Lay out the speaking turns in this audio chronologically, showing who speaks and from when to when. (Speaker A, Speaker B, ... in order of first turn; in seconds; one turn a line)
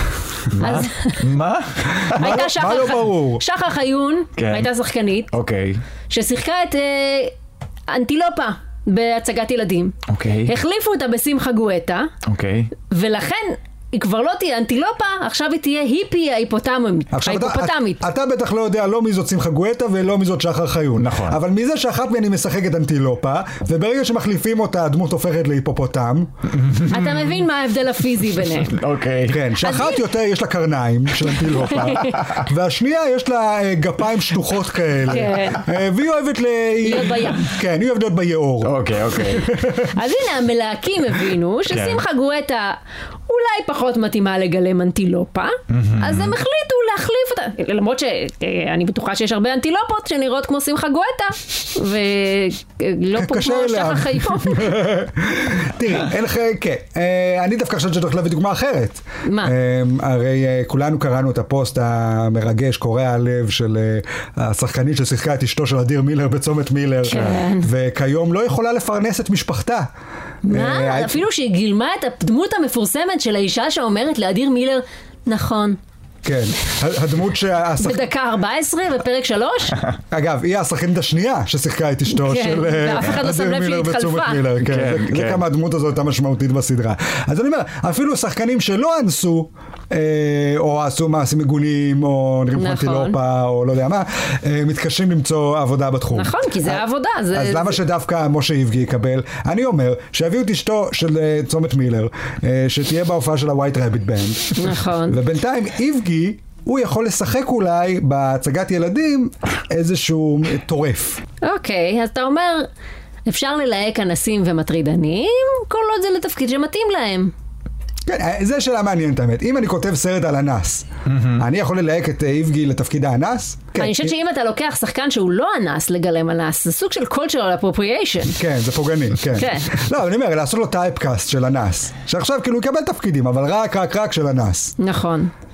Speaker A: 0.5-2.4
Speaker B: 0.6-1.2
Speaker C: 2.0-3.4
Speaker B: 2.1-5.3
Speaker A: 4.4-4.7
Speaker A: 5.3-5.8
Speaker B: 6.1-7.3
Speaker B: 7.9-12.1
Speaker A: 10.1-10.5
Speaker A: 12.2-12.7
Speaker B: 12.9-18.0
Speaker C: 17.1-26.3
Speaker A: 21.0-21.4
Speaker A: 26.6-27.2
Speaker B: 26.9-28.8
Speaker A: 28.6-29.5
Speaker C: 29.3-39.9
Speaker B: 29.6-30.0
Speaker B: 31.7-32.2
Speaker A: 31.7-32.5
Speaker B: 35.1-35.6
Speaker B: 36.8-37.5
Speaker A: 38.6-39.6
Speaker B: 39.9-54.8
Speaker A: 41.7-42.0
Speaker A: 45.7-46.4
Speaker C: 53.2-69.9
Speaker B: 59.2-59.5
Speaker B: 67.0-67.7
Speaker B: 70.5-75.8
Speaker C: 70.5-71.2
Speaker C: 76.2-78.0
Speaker B: 77.8-79.8
Speaker C: 80.1-96.8
Speaker B: 82.1-84.5
Speaker A: 84.6-85.5
Speaker B: 92.5-93.2
Speaker B: 96.1-97.8
Speaker C: 97.3-111.2
Speaker B: 104.6-105.2
Speaker B: 111.4-112.7
Speaker B: 113.3-117.3
Speaker C: 118.1-124.1
Speaker A: 121.1-121.5
Speaker B: 123.8-128.4
Speaker C: 128.4-134.8
Speaker B: 129.3-129.7
Speaker B: 134.8-135.3